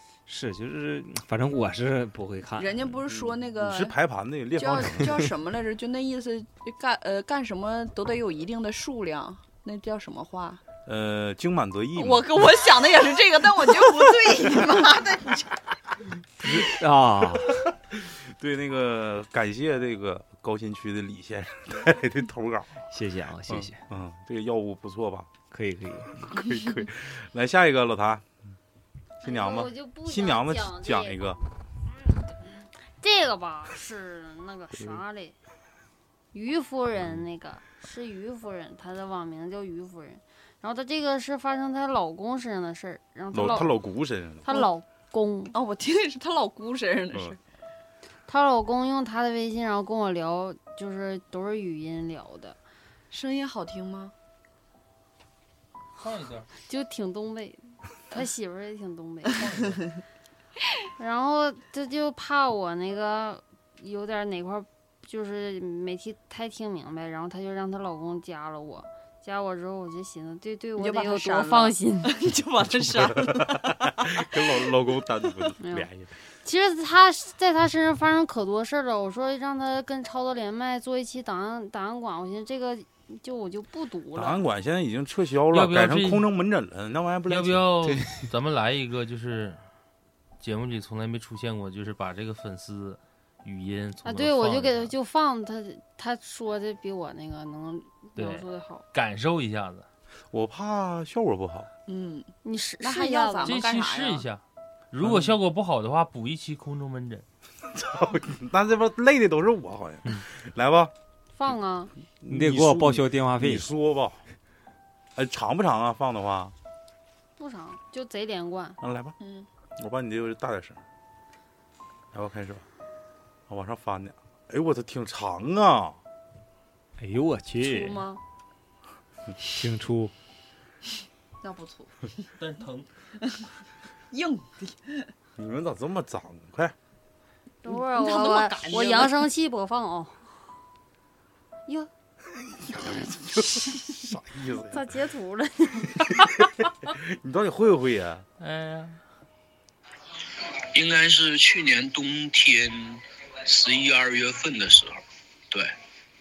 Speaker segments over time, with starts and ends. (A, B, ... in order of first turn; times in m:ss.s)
0:00.3-0:02.8 A
0:02.6-0:04.0 B
0:03.1-0:05.1 C
0:04.6-0:10.6 B
0:10.9-0:12.3 C
0:12.0-0:15.6 B
0:16.4-0:17.7 A
0:17.9-0:22.8 C
0:22.9-0:23.8 A
0:23.5-0:25.3 C
0:25.5-0:26.3 A
0:26.2-0:28.3 C
0:29.2-0:31.4 C
0:29.2-0:31.4 D
0:33.0-0:35.4 D
0:34.7-0:35.0 C
0:36.3-0:43.8 D
0:43.3-0:44.5 C
0:44.4-0:45.6 D
0:45.5-0:47.4 B
0:48.3-0:52.6 D
0:53.1-0:54.1 B
0:56.0-0:56.5 E
0:56.7-0:59.5 D
0:59.4-0:59.8 E
1:01.0-1:12.2 D
1:10.8-1:14.5 B
1:13.0-1:16.1 C
1:15.6-1:15.9 D
1:16.4-1:24.4 D
1:24.1-1:27.7 C
1:25.5-1:26.3 E
1:27.3-1:29.6 E
1:30.4-1:34.9 E
1:34.0-1:38.8 D
1:38.2-1:39.9 E
1:40.3-1:41.7 C
1:41.9-1:44.3 B
1:42.4-1:43.6 D
1:43.4-1:47.3 E
1:45.0-1:45.4 C
1:47.7-1:50.9 C
1:51.3-1:51.9 D
1:52.2-1:54.2 C
1:52.3-1:53.7 A
1:55.2-1:56.6 C
1:57.4-1:58.8 D
1:58.8-1:59.2 C
1:59.2-1:59.5 B
1:59.8-2:00.8 C
2:02.1-2:02.6 C
2:03.5-2:06.0 C
2:07.0-2:08.1 A
2:07.6-2:08.2 B
2:09.4-2:10.1 A
2:11.4-2:12.3 B
2:12.4-2:12.9 E
2:14.1-2:15.1 B
2:15.4-2:16.8 C
2:17.6-2:20.3 D
2:17.6-2:19.3 B
2:22.9-2:25.0 C
2:24.7-2:26.2 D
2:26.8-2:28.2 C
2:28.4-2:29.0 E
2:30.7-2:35.7 F